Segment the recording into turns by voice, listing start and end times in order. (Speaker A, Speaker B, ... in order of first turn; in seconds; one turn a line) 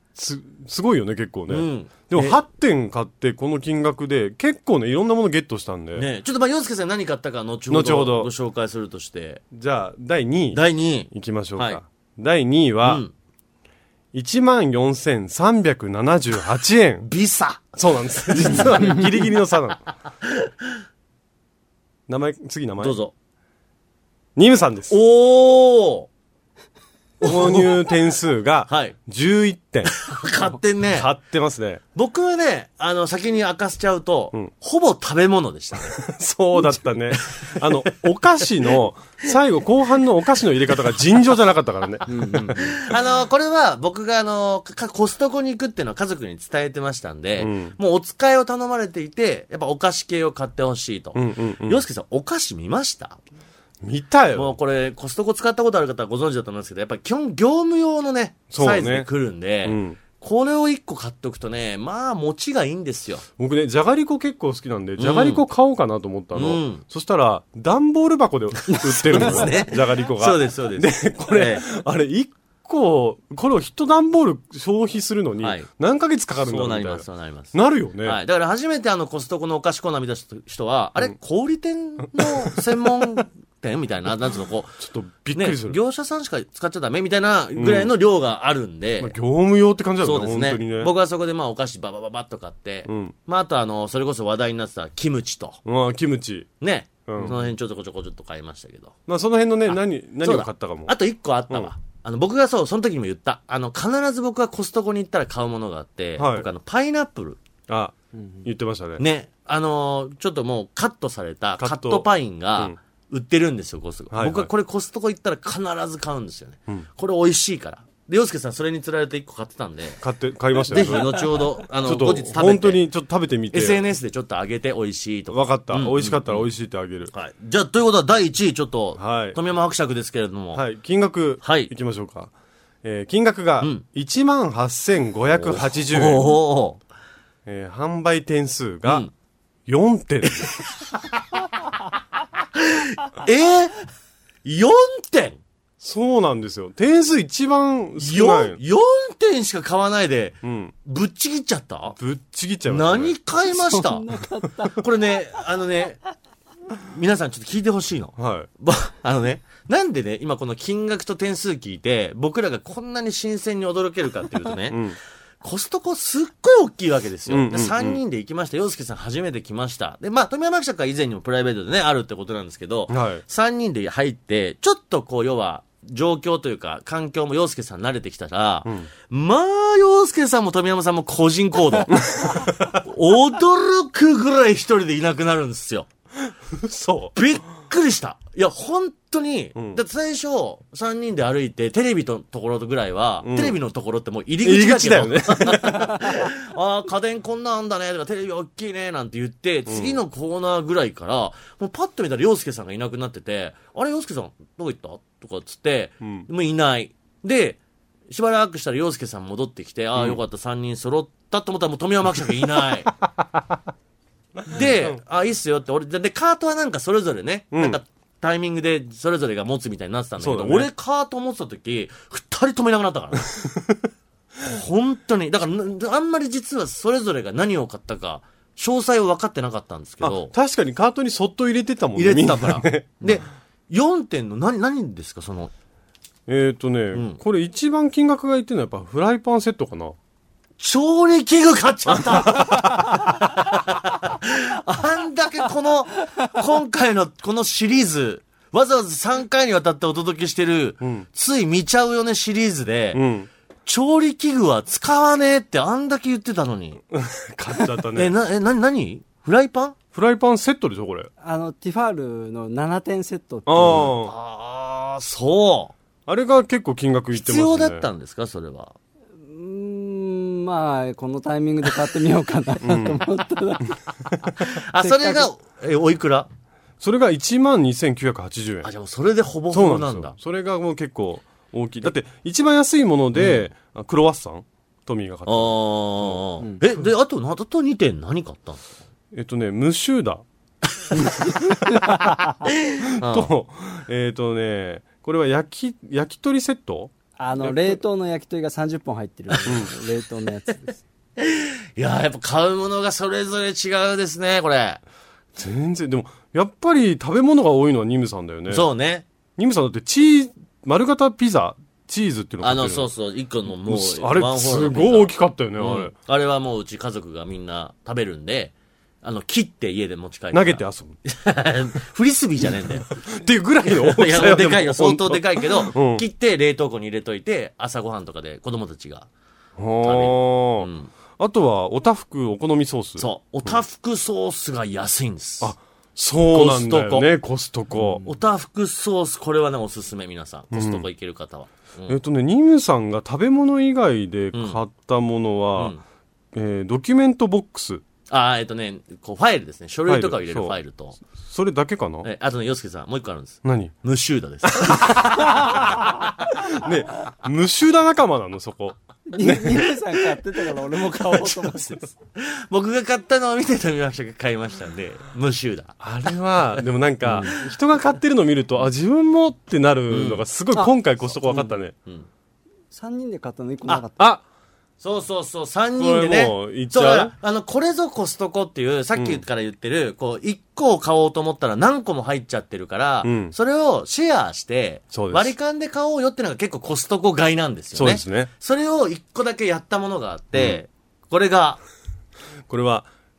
Speaker A: 0.1-6.0
Speaker B: 1.5-2.4
Speaker B: 6.0-9.4
Speaker A: 7.7-8.3
Speaker A: 9.5-13.0
Speaker B: 10.5-11.8
Speaker B: 12.8-13.1
Speaker A: 14.1-17.1
Speaker B: 17.0-19.0
Speaker A: 17.8-19.9
Speaker B: 20.2-20.5
Speaker A: 22.1-23.0
Speaker B: 22.8-23.1
Speaker A: 24.4-24.9
Speaker B: 24.9-26.1
Speaker B: 27.2-27.8
Speaker A: 27.2-30.1
Speaker B: 28.7-28.9
Speaker B: 29.9-31.1
Speaker A: 30.9-31.8
Speaker B: 31.9-36.0
Speaker A: 35.9-42.7
Speaker B: 37.3-37.7
Speaker C: 42.1-42.7
Speaker B: 42.2-53.2
Speaker A: 47.4-47.7
Speaker A: 51.1-51.8
Speaker A: 53.8-54.5
Speaker B: 54.3-63.2
Speaker A: 58.5-59.1
Speaker A: 59.6-60.0
Speaker A: 63.4-78.2
Speaker B: 65.0-65.4
Speaker B: 66.3-66.8
Speaker B: 68.7-71.6
Speaker B: 75.4-75.7
Speaker B: 76.4-84.8
Speaker A: 82.2-82.6
Speaker A: 84.8-85.8
Speaker B: 85.3-89.1
Speaker A: 87.5-87.9
Speaker A: 89.0-90.9
Speaker B: 90.0-95.6
Speaker A: 92.9-93.1
Speaker A: 95.6-96.5
Speaker B: 96.6-98.9
Speaker A: 97.1-97.4
Speaker A: 99.1-100.9
Speaker B: 99.7-107.4
Speaker A: 106.2-106.5
Speaker A: 107.7-109.0
Speaker B: 109.0-120.0
Speaker A: 111.6-112.8
Speaker A: 114.1-114.5
Speaker A: 120.0-123.8
Speaker B: 120.7-122.8
Speaker B: 123.5-126.5
Speaker A: 125.3-127.1
Speaker B: 127.1-130.6
Speaker A: 129.0-129.4
Speaker A: 130.5-132.3
Speaker B: 131.4-131.7
Speaker A: 132.8-136.4
Speaker B: 135.3-136.8
Speaker A: 137.4-139.1
Speaker B: 138.8-139.1
Speaker A: 139.7-140.6
Speaker B: 142.5-143.7
Speaker B: 144.4-145.4
Speaker A: 145.8-148.6
Speaker B: 148.0-152.0
Speaker A: 150.4-150.7
Speaker A: 152.0-153.2
Speaker B: 152.7-154.1
Speaker C: 153.5-154.8
Speaker B: 154.7-156.0
Speaker B: 156.8-164.8
Speaker A: 158.2-158.5
Speaker A: 164.7-165.0
Speaker B: 165.4-185.9
Speaker A: 167.3-168.0
Speaker A: 172.9-173.2
Speaker A: 181.9-182.8
Speaker A: 186.5-187.2
Speaker B: 187.1-207.6
Speaker A: 193.2-193.6
Speaker A: 194.4-196.0
Speaker A: 199.7-200.0
Speaker A: 206.0-206.3
Speaker B: 208.1-212.9
Speaker A: 214.4-214.9
Speaker B: 214.5-223.3
Speaker A: 217.5-217.8
Speaker A: 220.2-220.7
Speaker B: 224.4-230.3
Speaker A: 230.0-233.2
Speaker B: 231.9-235.5
Speaker A: 236.3-239.9
Speaker B: 236.9-237.2
Speaker B: 240.6-253.0
Speaker A: 241.9-242.9
Speaker A: 250.8-251.1
Speaker A: 252.9-253.3
Speaker B: 253.7-256.8
Speaker A: 256.9-258.1
Speaker B: 257.9-259.8
Speaker A: 259.9-261.1
Speaker C: 261.2-263.9
Speaker A: 263.4-264.1
Speaker B: 263.6-265.7
Speaker A: 266.1-267.8
Speaker B: 267.1-268.7
Speaker C: 269.2-275.3
Speaker A: 272.6-273.1
Speaker B: 274.4-276.3
Speaker A: 276.8-278.7
Speaker B: 278.6-280.1
Speaker A: 279.5-286.2
Speaker B: 283.1-283.5
Speaker B: 285.2-288.6
Speaker A: 289.1-290.2
Speaker B: 292.4-293.3
Speaker A: 293.0-297.8
Speaker C: 297.2-300.8
Speaker A: 299.4-299.7
Speaker B: 301.2-304.8
Speaker A: 305.4-308.6
Speaker B: 308.5-309.1
Speaker A: 309.4-312.9
Speaker B: 312.4-322.9
Speaker A: 313.6-315.9
Speaker A: 320.3-321.0
Speaker A: 322.9-326.0
Speaker B: 323.6-329.1
Speaker A: 329.6-333.6
Speaker B: 329.8-330.9
Speaker B: 333.0-335.5
Speaker A: 335.4-338.0
Speaker B: 336.3-337.1
Speaker C: 337.7-338.1
Speaker B: 338.0-342.0
Speaker A: 340.5-340.9
Speaker A: 341.9-345.7
Speaker B: 344.3-344.6
Speaker B: 345.6-345.8
Speaker A: 346.3-347.8
Speaker B: 348.1-351.0
Speaker A: 349.9-350.5
Speaker A: 351.2-352.1
Speaker B: 352.0-355.8
Speaker A: 353.4-353.7
Speaker A: 354.5-355.6
Speaker A: 356.4-359.7
Speaker C: 359.1-361.9
Speaker B: 360.7-366.1
Speaker A: 365.8-371.7
Speaker B: 369.9-370.2
Speaker B: 371.3-372.1
Speaker C: 372.7-374.0
Speaker B: 374.8-391.6
Speaker A: 375.8-377.1
Speaker A: 378.9-379.2
Speaker A: 383.0-383.3
Speaker A: 384.9-385.3
Speaker A: 387.7-388.3
Speaker A: 392.5-392.9